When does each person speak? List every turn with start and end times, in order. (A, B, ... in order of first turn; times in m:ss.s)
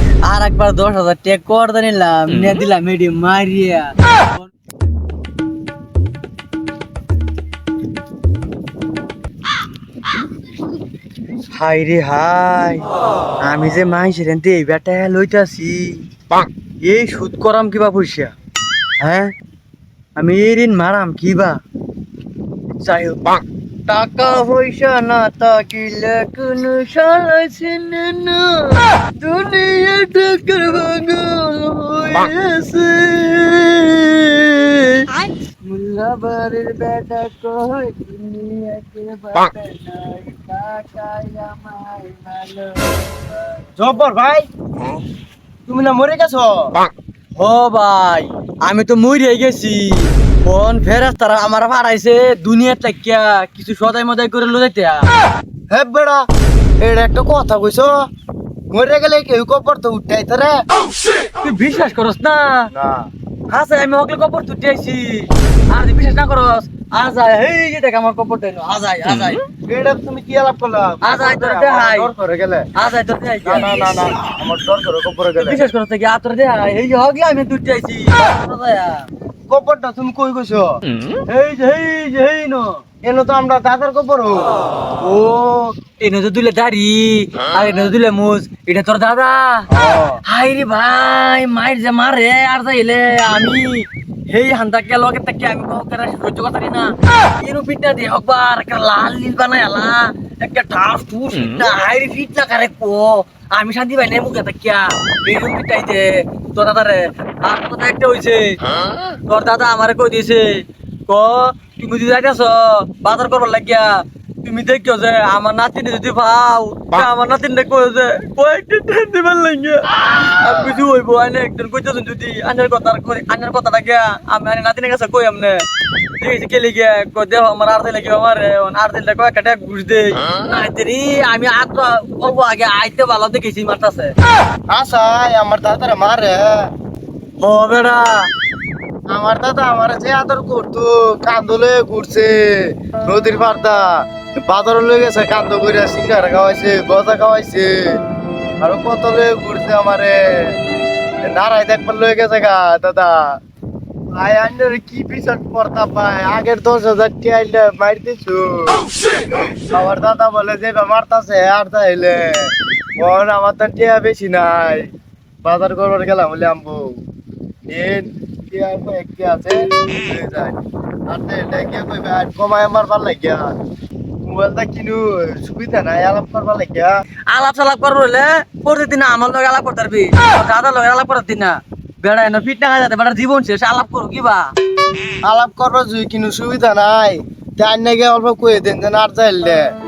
0:00.3-0:04.5 A
0:11.5-0:12.8 A
0:13.4-0:16.0 A
0:16.8-0:18.3 A
0:19.0-0:19.3 A
0:20.2-0:21.6 A
0:22.8-0:43.6 A
0:43.8-0:44.5 B
0:45.7-0:46.8 B
0:47.4-0:55.1 A
0:55.7-0:56.2 B
0:56.8-0:58.1 B
0:58.7-1:00.6 B
1:01.4-1:02.7 A
1:02.7-1:03.1 B
1:03.5-1:09.4 A
1:09.7-1:12.7 B
1:11.0-1:12.1 A
1:12.8-1:13.7 A
1:13.4-1:15.6 B
1:15.4-1:19.0 A
1:19.5-1:20.8 B
1:21.2-1:22.8 A
1:23.0-1:24.5 B
1:25.0-1:25.7 B
1:26.0-1:29.7 A
1:29.7-1:30.2 B
1:30.3-1:48.6 A
1:49.3-1:53.9 A
1:54.4-2:05.6 A
2:06.2-2:14.1 A
2:14.7-2:16.5 B
2:17.4-2:18.3 A
2:19.1-2:23.9 B
2:24.4-2:27.9 B
2:28.6-2:30.6 B
2:31.2-2:33.2 B
2:34.2-2:38.8 B
2:39.7-2:44.9 B
2:45.4-2:47.0 B
2:47.7-2:53.4 B
2:54.2-2:56.9 B
2:57.3-3:04.5 A
3:05.2-3:09.6 B